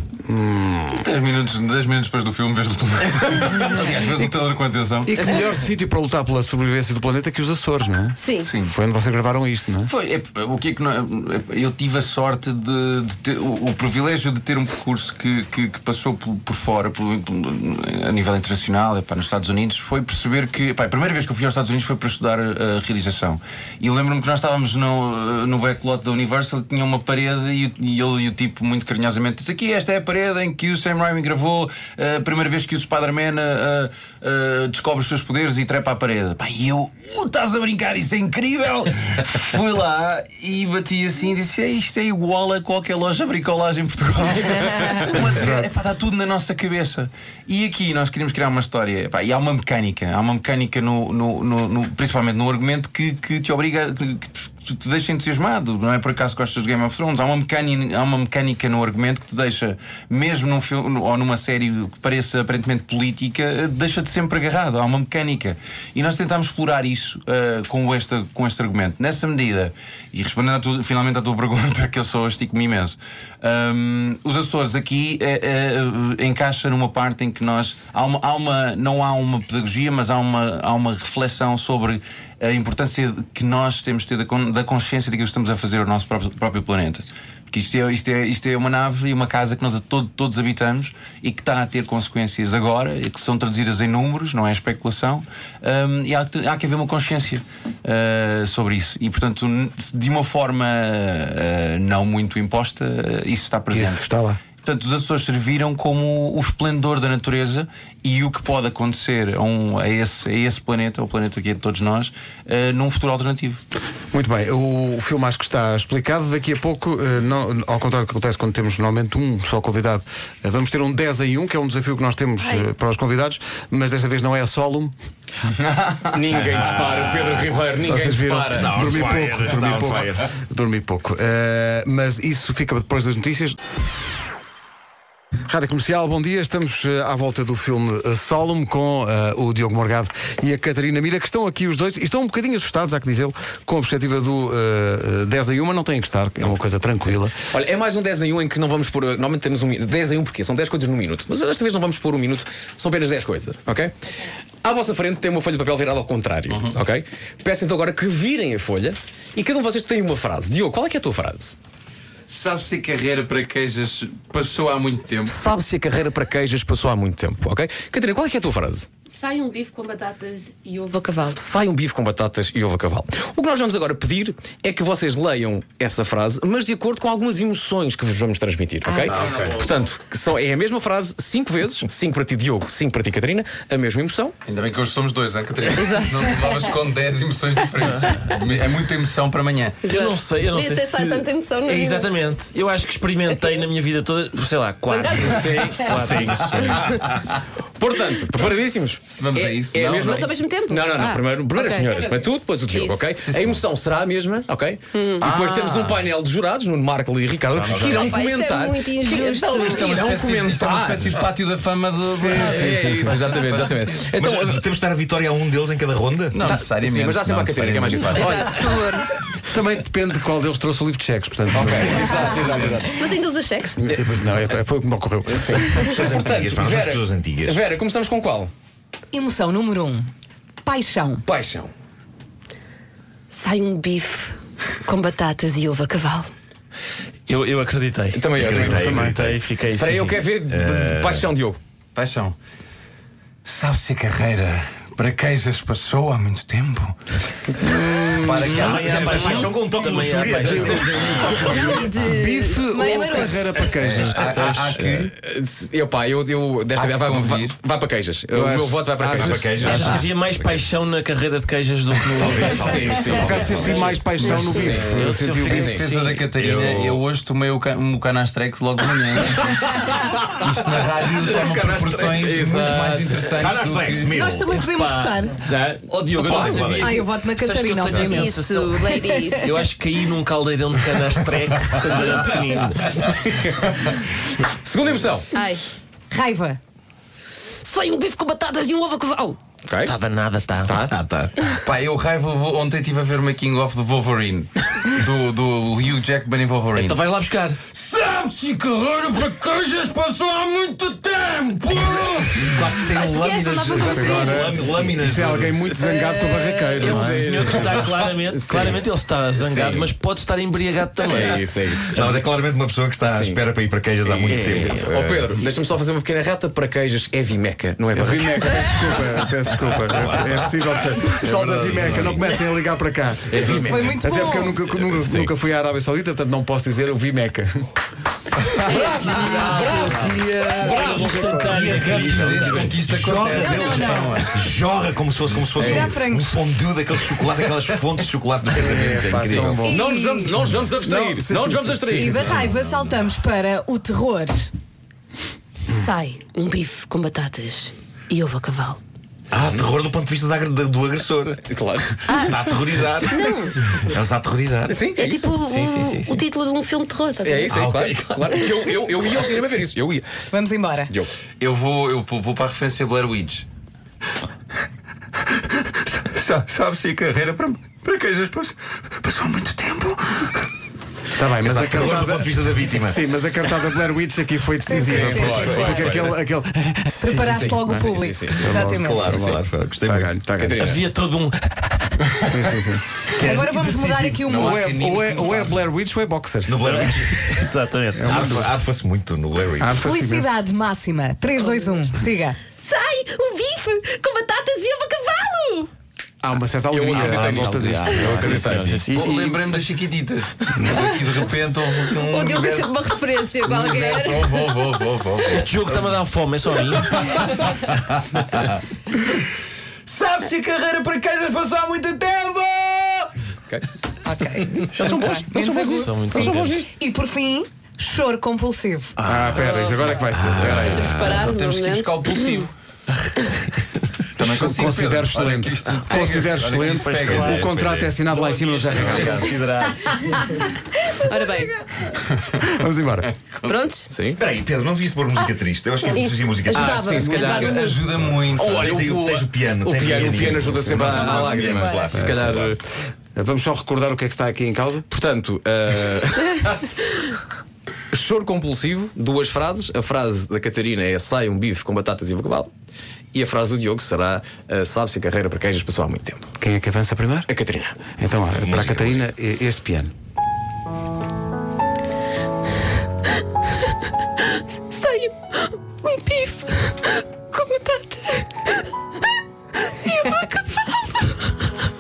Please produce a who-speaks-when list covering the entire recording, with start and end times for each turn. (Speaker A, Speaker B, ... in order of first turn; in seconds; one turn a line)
Speaker A: 0.3-1.0
Speaker B: 0.9-5.1
Speaker A: 5.1-9.9
Speaker C: 8.2-8.5
Speaker B: 8.4-8.8
Speaker B: 9.8-104.0
Speaker A: 45.3-45.7
Speaker A: 103.7-104.4
Speaker B: 104.6-113.6
Speaker A: 114.1-124.9
Speaker C: 122.4-122.7
Speaker B: 125.5-126.1
Speaker D: 126.1-128.7
Speaker E: 126.4-127.4
Speaker A: 127.8-133.6
Speaker E: 128.5-130.2
Speaker F: 128.8-129.9
Speaker A: 135.5-147.3
Speaker D: 147.0-153.9
Speaker D: 154.6-161.6
Speaker B: 162.3-165.3
Speaker D: 165.3-168.9
Speaker C: 169.1-171.4
Speaker D: 171.4-184.3
Speaker C: 178.8-179.2
Speaker B: 179.1-179.6
Speaker B: 184.5-189.9
Speaker C: 185.8-186.7
Speaker F: 187.8-188.2
Speaker C: 189.9-192.1
Speaker F: 189.9-197.0
Speaker C: 194.9-195.3
Speaker D: 195.3-195.8
Speaker B: 196.2-197.3
Speaker D: 197.8-211.3
Speaker B: 199.1-200.3
Speaker C: 200.0-203.3
Speaker B: 203.3-203.6
Speaker C: 204.9-205.3
Speaker B: 205.2-206.1
Speaker F: 207.4-208.1
Speaker E: 207.7-208.2
Speaker C: 207.9-209.8
Speaker B: 209.6-214.1
Speaker A: 212.1-213.3
Speaker D: 212.2-214.7
Speaker E: 214.2-216.4
Speaker B: 216.3-218.6
Speaker D: 216.4-218.8
Speaker C: 218.3-219.1
Speaker A: 219.5-222.4
Speaker D: 221.5-223.1
Speaker C: 223.0-223.8
Speaker A: 223.8-226.1
Speaker D: 225.3-228.5
Speaker E: 225.7-227.6
Speaker G: 229.1-230.1
Speaker G: 230.6-231.2
Speaker D: 231.2-231.7
Speaker C: 233.3-234.3
Speaker C: 234.8-236.3
Speaker F: 237.3-240.3
Speaker D: 238.1-238.8
Speaker E: 238.4-239.4
Speaker A: 238.8-239.2
Speaker D: 239.8-241.6
Speaker E: 240.5-241.3
Speaker B: 241.9-242.3
Speaker B: 243.4-247.0
Speaker A: 247.6-248.8
Speaker B: 248.1-251.6
Speaker F: 248.5-251.8
Speaker E: 248.6-251.0
Speaker A: 250.5-250.8
Speaker C: 251.0-253.4
Speaker A: 251.4-254.8
Speaker G: 252.6-253.4
Speaker B: 253.7-255.1
Speaker D: 255.0-259.8
Speaker B: 256.8-257.6
Speaker A: 258.3-260.1
Speaker E: 259.2-260.7
Speaker F: 259.6-263.3
Speaker E: 262.1-263.9
Speaker D: 262.4-264.9
Speaker A: 263.1-265.7
Speaker F: 264.2-266.9
Speaker B: 265.4-274.3
Speaker D: 265.6-266.6
Speaker E: 271.3-272.1
Speaker D: 271.9-273.2
Speaker E: 273.4-274.6
Speaker G: 274.1-275.4
Speaker F: 274.7-275.3
Speaker D: 275.4-277.0
Speaker E: 276.2-277.1
Speaker G: 276.4-279.6
Speaker F: 276.4-283.1
Speaker C: 278.0-279.5
Speaker D: 283.3-283.7
Speaker D: 284.6-285.4
Speaker C: 285.4-285.6
Speaker G: 286.1-286.6
Speaker C: 287.6-289.4
Speaker D: 289.6-290.0
Speaker F: 289.9-290.8
Speaker D: 290.6-291.4
Speaker B: 291.6-297.0
Speaker F: 296.8-297.6
Speaker B: 297.7-298.6
Speaker E: 299.4-300.0
Speaker E: 301.6-305.6
Speaker F: 301.7-302.0
Speaker B: 302.4-302.6
Speaker C: 302.7-304.7
Speaker A: 303.8-307.9
Speaker F: 305.7-311.4
Speaker D: 306.7-307.6
Speaker D: 308.2-309.9
Speaker D: 311.1-312.2
Speaker E: 311.9-315.4
Speaker D: 313.0-313.5
Speaker D: 314.0-319.8
Speaker F: 314.3-314.9
Speaker A: 317.9-327.7
Speaker E: 319.9-320.8
Speaker B: 321.3-322.2
Speaker D: 321.8-322.1
Speaker D: 323.3-324.0
Speaker G: 323.4-324.6
Speaker D: 324.7-325.4
Speaker B: 328.4-330.2
Speaker A: 328.7-331.8
Speaker C: 328.7-330.0
Speaker D: 329.0-331.5
Speaker F: 330.5-333.0
Speaker E: 331.4-339.7
Speaker B: 331.6-334.4
Speaker G: 333.3-334.2
Speaker D: 335.6-335.8
Speaker G: 335.6-336.4
Speaker A: 338.6-339.9
Speaker G: 339.6-340.4
Speaker D: 339.6-342.4
Speaker A: 340.8-342.5
Speaker G: 341.9-344.5
Speaker C: 345.7-348.8
Speaker E: 349.3-351.4
Speaker D: 351.4-352.1
Speaker C: 352.1-352.4
Speaker E: 352.1-354.8
Speaker C: 353.1-353.6
Speaker D: 354.7-355.4
Speaker C: 355.0-357.7
Speaker E: 355.4-356.2
Speaker D: 357.2-361.1
Speaker E: 357.5-358.3
Speaker G: 360.3-360.9
Speaker B: 361.4-363.5
Speaker B: 365.4-370.4
Speaker A: 371.2-380.8
Speaker E: 371.4-373.1
Speaker G: 374.7-375.8
Speaker D: 374.7-376.2
Speaker B: 374.9-376.0
Speaker G: 377.0-379.1
Speaker D: 377.3-378.5
Speaker E: 378.4-380.2
Speaker D: 380.4-380.8
Speaker F: 380.6-381.8
Speaker A: 382.2-382.8
Speaker F: 383.2-384.0
Speaker G: 383.2-384.7
Speaker B: 383.4-385.7
Speaker A: 384.3-386.6
Speaker E: 386.5-387.4
Speaker F: 386.6-388.4
Speaker A: 387.9-388.5
Speaker E: 388.0-389.8
Speaker A: 389.6-390.3
Speaker G: 389.8-392.4
Speaker C: 392.6-395.7
Speaker A: 396.2-399.5
Speaker D: 396.7-398.8
Speaker F: 397.0-399.1
Speaker B: 398.9-402.8
Speaker A: 400.6-400.9
Speaker C: 402.0-404.3
Speaker B: 403.4-405.7
Speaker F: 405.3-407.2
Speaker B: 406.8-409.0
Speaker B: 409.9-413.1
Speaker G: 414.0-418.9
Speaker D: 414.5-416.7
Speaker F: 415.7-416.6
Speaker A: 419.0-421.1
Speaker C: 419.3-422.5
Speaker E: 420.1-421.2
Speaker B: 421.1-422.5
Speaker B: 424.1-427.4
Speaker A: 424.2-429.3
Speaker F: 426.6-427.5
Speaker E: 427.1-427.9
Speaker B: 428.0-429.4
Speaker F: 428.7-429.8
Speaker C: 430.9-431.5
Speaker A: 432.4-433.1
Speaker B: 433.2-433.7
Speaker C: 433.5-433.9
Speaker D: 433.9-434.2
Speaker E: 434.2-437.0
Speaker C: 435.9-437.9
Speaker D: 436.5-442.6
Speaker G: 437.0-437.7
Speaker B: 437.3-438.8
Speaker E: 438.1-442.6
Speaker A: 440.2-441.0
Speaker G: 440.8-442.0
Speaker A: 441.9-442.3
Speaker A: 443.1-444.9
Speaker D: 444.9-446.7
Speaker D: 447.9-452.5
Speaker D: 453.1-456.3
Speaker A: 456.4-457.3
Speaker D: 457.3-458.0
Speaker A: 458.0-459.9
Speaker E: 458.3-459.0
Speaker C: 464.2-468.6
Speaker C: 469.7-471.4